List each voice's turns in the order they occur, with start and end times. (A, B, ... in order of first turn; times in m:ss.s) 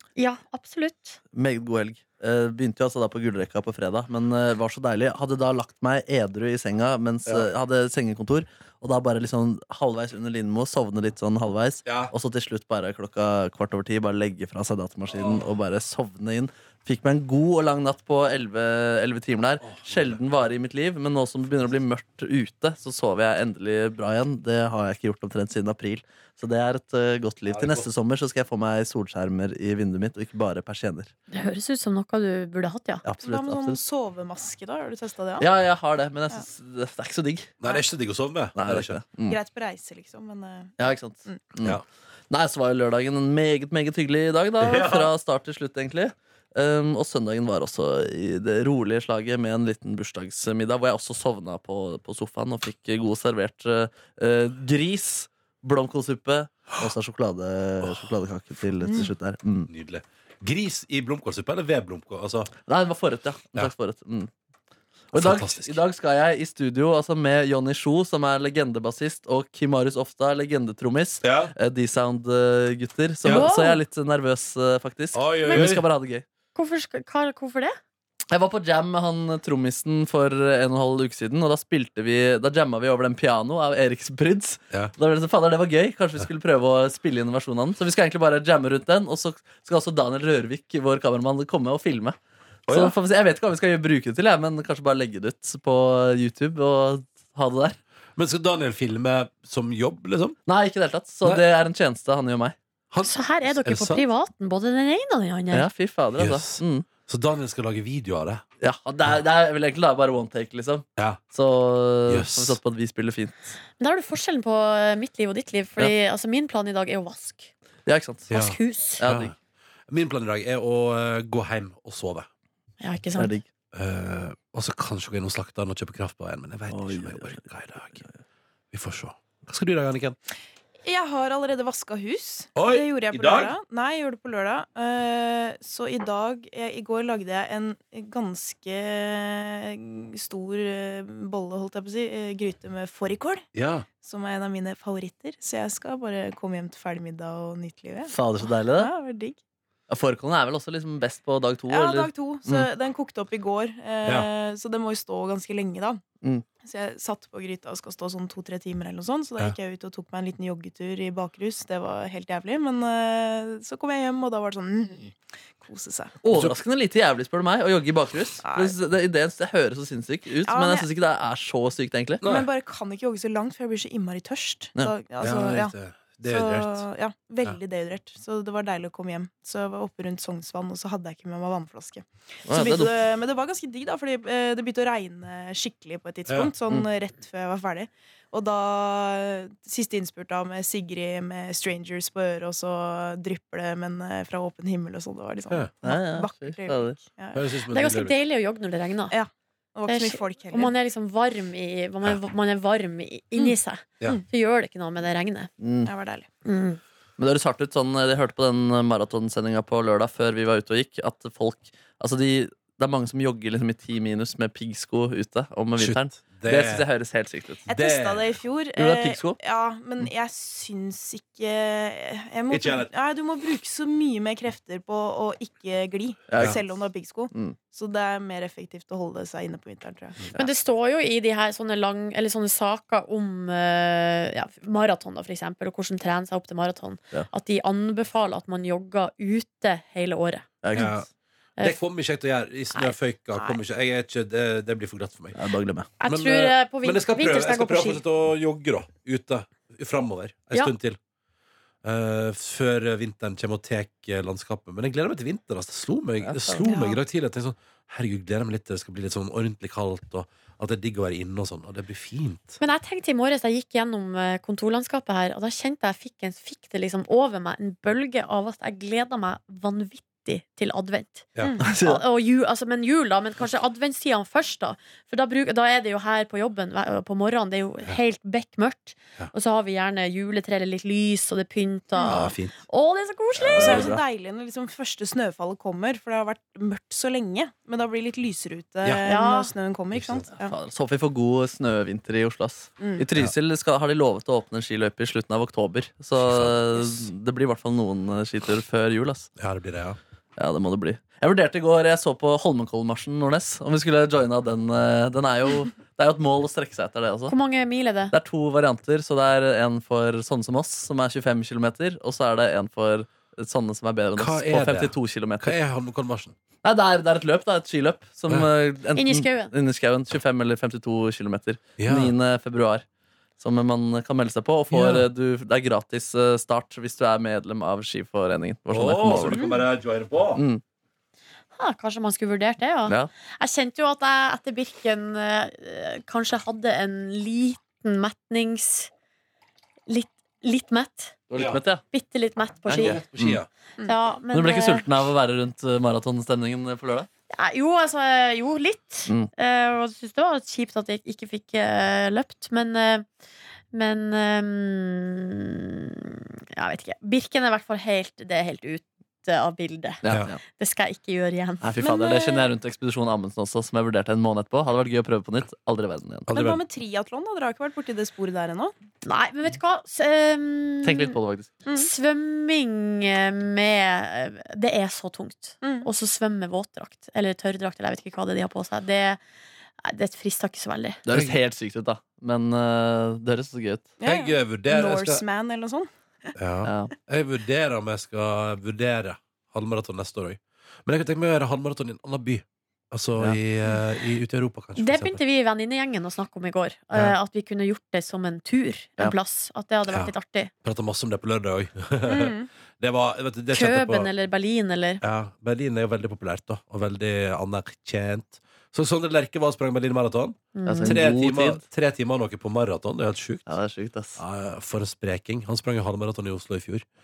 0:00.2-0:01.2 A
0:01.3-0:31.1 B
0:11.8-0:12.1 C
0:15.1-0:15.4 C
0:19.6-0:20.2 C
0:27.5-0:27.9 C
0:31.3-0:33.0 A
0:33.0-0:33.8 B
0:33.2-0:35.4 D
0:35.4-0:37.5 B
0:37.6-0:39.0 C
0:38.5-0:39.4 B
0:39.3-0:41.4 D
0:40.8-0:41.8 B
0:42.3-0:59.7 B
0:44.6-0:45.1 C
0:59.7-1:02.5 C
1:02.7-1:04.3 B
1:05.1-1:16.2 B
1:05.1-1:05.8 C
1:11.2-1:11.5 C
1:13.2-1:13.5 C
1:13.3-1:13.8 A
1:15.1-1:15.8 C
1:16.5-1:17.8 A
1:18.3-1:32.1 B
1:32.7-1:32.9 C
1:32.7-1:37.8 B
1:38.2-1:40.4 C
1:40.4-1:42.6 B
1:42.9-1:44.0 C
1:43.0-1:45.7 A
1:45.5-1:46.9 B
1:46.2-1:48.4 C
1:48.6-1:53.5 B
1:52.1-1:52.6 C
1:53.8-1:57.5 A
1:57.8-1:58.3 B
1:58.3-1:59.3 C
1:58.3-1:59.0 A
1:59.0-1:59.3 B
1:59.9-2:02.3 C
2:02.8-2:03.4 A
2:03.2-2:03.4 B
2:03.7-2:08.0 C
2:06.7-2:07.4 B
2:08.7-2:10.2 C
2:10.8-2:23.4 D
2:12.6-2:13.5 C
2:23.5-2:23.8 C
2:24.0-2:29.4 D
2:28.1-2:28.9 B
2:29.9-2:32.7 B
2:31.7-2:36.0 D
2:36.6-2:46.1 D
2:46.2-2:52.2 B
2:46.3-2:46.6 C
2:48.4-2:48.7 D
2:50.4-2:50.9 D
2:52.2-2:52.5 C
2:52.2-3:17.4 D
2:55.2-2:56.8 C
3:02.5-3:02.9 B
3:15.8-3:17.0 B
3:17.3-3:18.1 C
3:17.7-3:19.1 A
3:19.1-3:20.7 D
3:19.9-3:25.5 A
3:23.4-3:24.2 D
3:25.6-3:25.9 B
3:25.8-3:26.3 D
3:26.4-3:26.8 A
3:27.2-3:37.6 B
3:35.8-3:36.8 C
3:37.7-3:50.4 D
3:37.7-3:38.3 C
3:38.8-3:39.4 B
3:42.5-3:42.9 C
3:46.3-3:46.7 B
3:50.3-4:00.9 A
4:00.6-4:00.9 B
4:00.7-4:01.1 C
4:01.6-4:05.4 C
4:05.3-4:05.9 B
4:06.0-4:08.0 A
4:06.0-4:11.0 C
4:11.8-4:22.6 C
4:16.2-4:16.6 B
4:16.6-4:17.0 D
4:22.6-4:43.9 A
4:31.3-4:31.6 C
4:31.4-4:31.7 D
4:31.6-4:32.0 B
4:42.0-4:42.2 D
4:42.0-4:42.5 C
4:43.4-4:44.0 B
4:43.6-4:50.6 D
4:49.0-4:49.5 A
4:49.9-4:50.2 C
4:50.4-4:59.3 B
4:52.8-4:53.0 D
4:56.2-4:56.6 C
4:59.4-5:00.0 C
5:00.4-5:07.3 B
5:07.3-5:08.1 A
5:08.1-5:15.6 B
5:14.2-5:16.3 C
5:16.6-5:22.8 B
5:18.9-5:19.5 A
5:21.8-5:22.1 C
5:23.4-5:29.6 B
5:24.7-5:25.1 C
5:28.7-5:30.4 C
5:29.2-5:29.6 D
5:30.3-5:30.6 B
5:31.6-5:38.9 A
5:39.9-5:41.2 A
5:41.3-5:41.8 B
5:41.9-5:43.0 A
5:42.7-5:43.4 B
5:42.7-5:43.5 C
5:43.8-5:44.8 A
5:44.3-5:47.1 B
5:47.3-5:53.0 A
5:53.7-6:01.6 A
6:00.0-6:00.4 B
6:00.1-6:00.3 C
6:01.6-6:06.3 B
6:01.8-6:02.5 D
6:06.3-6:06.6 C
6:06.3-6:08.7 D
6:09.0-6:11.2 A
6:10.8-6:11.5 B
6:11.7-6:19.2 A
6:15.6-6:15.9 D
6:19.8-6:21.0 A
6:21.0-6:23.9 B
6:21.1-6:21.4 C
6:24.0-6:26.3 D
6:24.0-6:25.2 C
6:26.4-6:35.2 C
6:26.6-6:26.9 B
6:34.8-6:40.5 A
6:40.6-6:44.1 C
6:42.1-6:42.5 D
6:43.5-6:45.0 A
6:45.0-6:53.5 C
6:50.5-6:51.0 A
6:50.6-6:51.6 B
6:53.5-6:54.2 B
6:54.2-6:56.9 C